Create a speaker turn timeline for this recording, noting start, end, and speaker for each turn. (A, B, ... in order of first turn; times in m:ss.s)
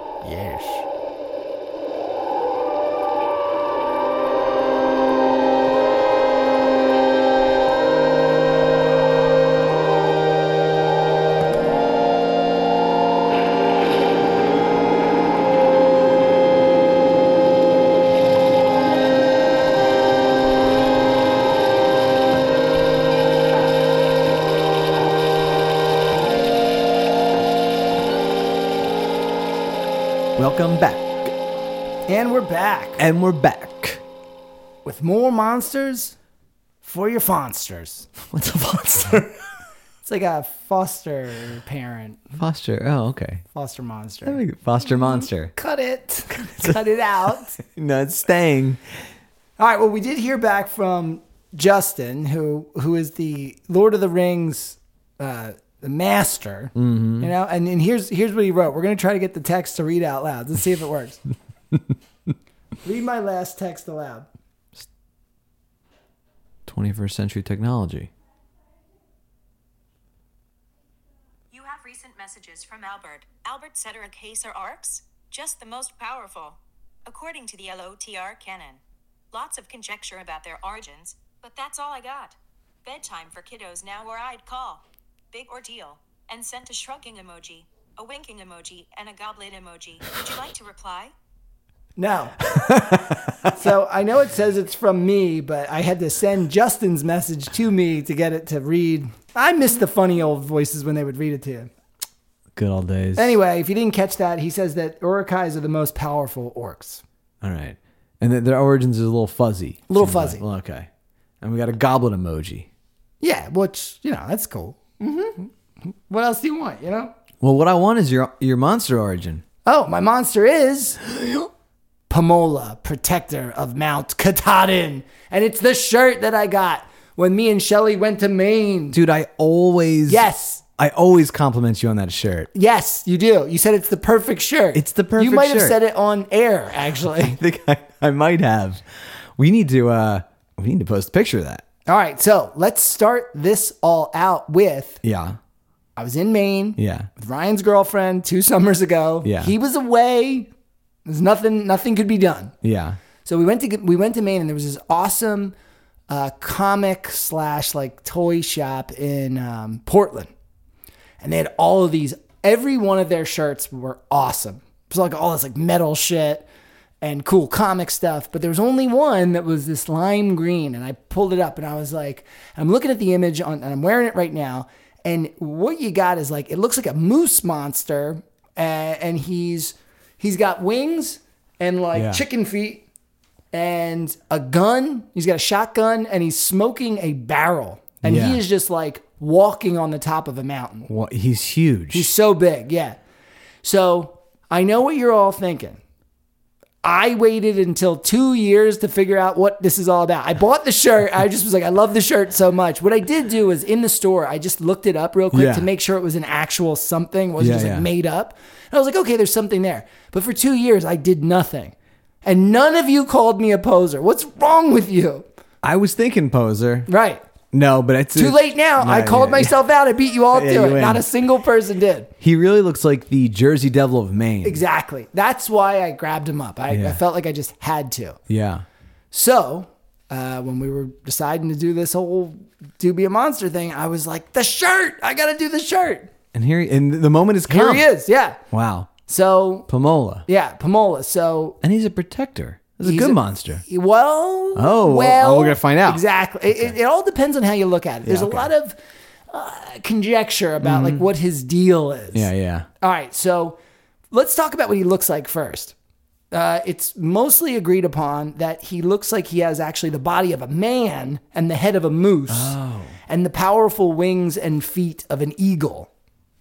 0:00.2-0:00.8 A
0:30.4-0:31.3 B
0:32.1-0:33.0 A
0:33.0-0:34.0 B
0:34.8-0:36.2 A
0:36.8-0:38.1 A
0:38.3-0:39.4 B
0:40.0-0:42.2 A
0:42.4-0:43.4 B
0:43.5-0:47.6 A
0:44.2-0:45.5 B
0:46.3-0:46.8 B
0:47.6-0:48.8 B
0:49.6-1:01.2 A
0:56.7-0:57.3 B
1:02.8-1:04.3 A
1:06.6-1:08.1 B
1:11.5-1:18.8 C
1:19.3-1:31.1 C
1:32.0-1:32.4 A
1:32.6-1:33.1 B
1:33.4-1:41.7 A
1:42.5-1:43.4 B
1:43.2-1:47.0 A
1:47.4-1:50.9 B
1:49.9-1:50.4 A
1:51.4-1:52.7 B
1:53.2-1:57.1 A
1:57.4-1:59.4 B
1:59.6-2:01.0 A
2:02.1-2:09.0 A
2:08.9-2:10.2 B
2:10.1-2:10.6 A
2:10.8-2:12.5 B
2:12.5-2:17.4 A
2:14.7-2:15.8 B
2:17.2-2:18.8 B
2:19.4-2:21.6 B
2:21.9-2:25.0 A
2:25.0-2:25.4 B
2:26.0-2:30.5 A
2:26.8-2:27.1 B
2:29.2-2:29.5 B
2:31.0-2:32.5 A
2:32.6-2:33.0 B
2:33.2-2:35.5 A
2:36.1-2:40.3 A
2:41.2-2:46.4 A
2:47.0-3:02.8 A
3:01.9-3:02.2 B
3:03.5-3:10.9 A
3:08.0-3:08.4 B
3:10.9-3:12.1 B
3:11.9-3:13.0 A
3:13.6-3:15.8 A
3:16.8-3:35.2 A
3:25.3-3:25.7 B
3:27.4-3:27.9 B
3:35.6-3:36.9 B
3:36.9-3:37.2 A
3:37.5-3:39.6 B
3:38.1-3:42.1 A
3:40.3-3:41.0 B
3:42.2-3:44.6 B
3:44.4-3:48.2 A
3:46.7-3:47.0 B
3:48.3-3:48.6 B
3:49.1-3:56.1 A
3:56.3-3:57.8 B
3:57.5-3:58.4 A
3:58.5-3:58.9 B
3:59.0-3:59.7 A
3:59.7-4:00.2 B
4:00.3-4:01.6 A
4:01.6-4:03.6 B
4:02.8-4:08.8 A
4:04.5-4:06.8 B
4:08.0-4:08.5 B
4:09.3-4:12.3 A
4:10.6-4:11.1 B
4:12.1-4:12.7 B
4:12.8-4:13.6 A
4:14.1-4:15.7 A
4:16.3-4:22.6 A
4:22.3-4:22.9 B
4:23.1-4:25.9 A